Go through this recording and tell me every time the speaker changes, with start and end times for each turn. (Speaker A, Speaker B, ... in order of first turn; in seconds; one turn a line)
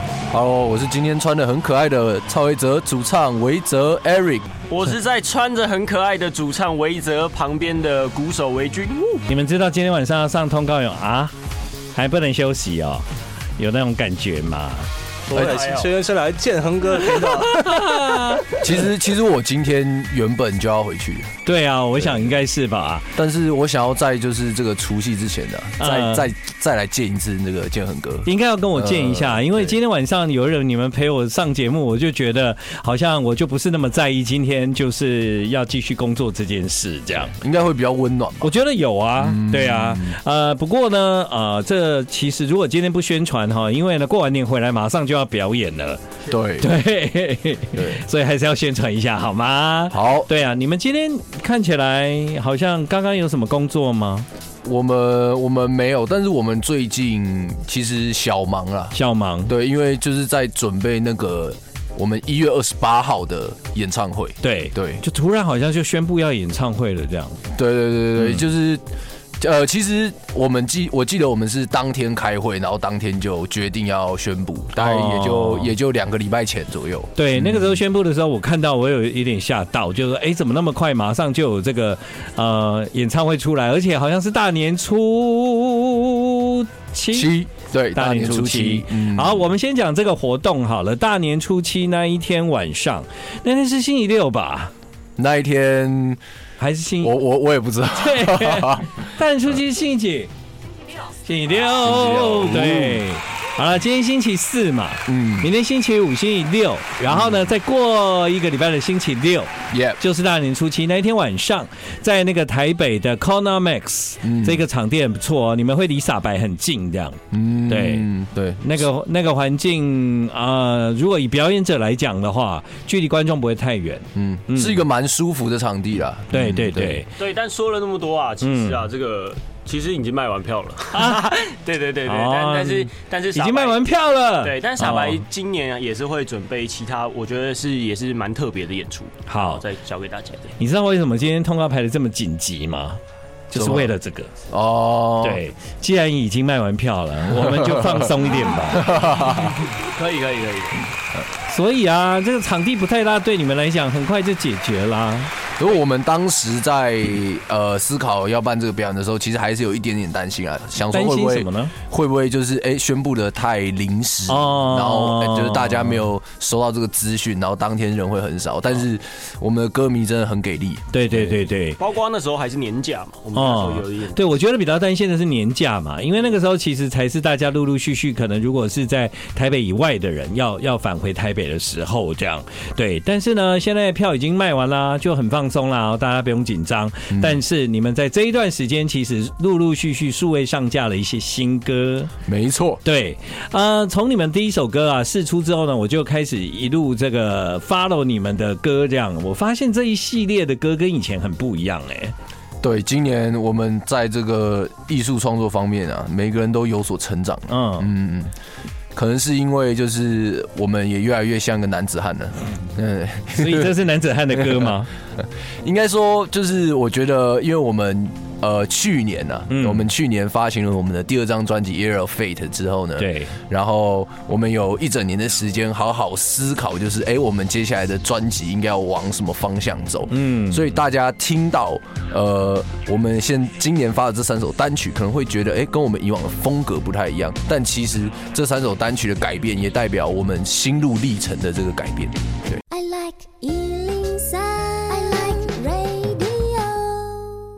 Speaker A: 0.3-4.5
Speaker B: 4.7-9.2
Speaker C: 9.3-11.3
Speaker C: 11.9-14.9
Speaker D: 15.3-18.2
Speaker A: 15.3-15.6
Speaker B: 15.3-15.9
Speaker C: 17.1-18.6
Speaker A: 18.6-21.3
Speaker C: 21.4-23.1
Speaker A: 22.0-22.4
Speaker A: 23.1-29.8
Speaker C: 25.8-26.3
Speaker C: 28.2-37.4
Speaker A: 37.3-38.5
Speaker C: 38.4-46.0
Speaker A: 39.2-40.2
Speaker A: 46.3-46.7
Speaker C: 46.6-54.3
Speaker A: 47.7-48.0
Speaker A: 49.9-50.3
Speaker A: 54.6-58.9
Speaker C: 58.9-59.5
Speaker A: 59.5-65.0
Speaker C: 64.4-67.4
Speaker A: 67.5-68.8
Speaker A: 69.4-77.8
Speaker C: 74.7-75.7
Speaker C: 77.2-87.3
Speaker A: 87.1-89.4
Speaker C: 87.9-94.7
Speaker A: 95.2-96.2
Speaker C: 96.6-97.2
Speaker A: 97.0-99.0
Speaker C: 97.9-100.3
Speaker C: 101.2-118.1
Speaker A: 101.8-103.0
Speaker A: 105.1-105.5
Speaker A: 107.1-107.5
Speaker A: 109.7-110.0
Speaker A: 114.2-114.6
Speaker A: 117.3-118.8
Speaker C: 118.6-124.8
Speaker A: 124.1-127.0
Speaker C: 126.3-127.1
Speaker B: 127.2-133.8
Speaker C: 128.4-128.8
Speaker C: 130.9-131.4
Speaker C: 132.1-135.2
Speaker B: 134.4-140.6
Speaker C: 139.3-139.6
Speaker C: 140.6-144.3
Speaker A: 143.5-143.9
Speaker A: 144.5-145.4
Speaker C: 145.2-148.9
Speaker A: 147.3-148.1
Speaker A: 148.7-149.5
Speaker B: 148.9-150.8
Speaker C: 151.4-155.3
Speaker A: 155.6-171.3
Speaker C: 160.9-161.7
Speaker C: 164.3-166.0
Speaker C: 170.9-171.8
Speaker B: 171.8-174.3
Speaker C: 173.3-192.1
Speaker A: 187.1-187.4
Speaker A: 192.2-192.8
Speaker C: 192.8-202.1
Speaker A: 202.6-208.3
Speaker C: 207.5-207.9
Speaker A: 208.9-213.8
Speaker C: 213.3-214.9
Speaker A: 214.3-214.7
Speaker A: 215.6-242.6
Speaker C: 219.5-219.9
Speaker C: 223.0-223.3
Speaker C: 230.1-230.8
Speaker E: 242.7-247.4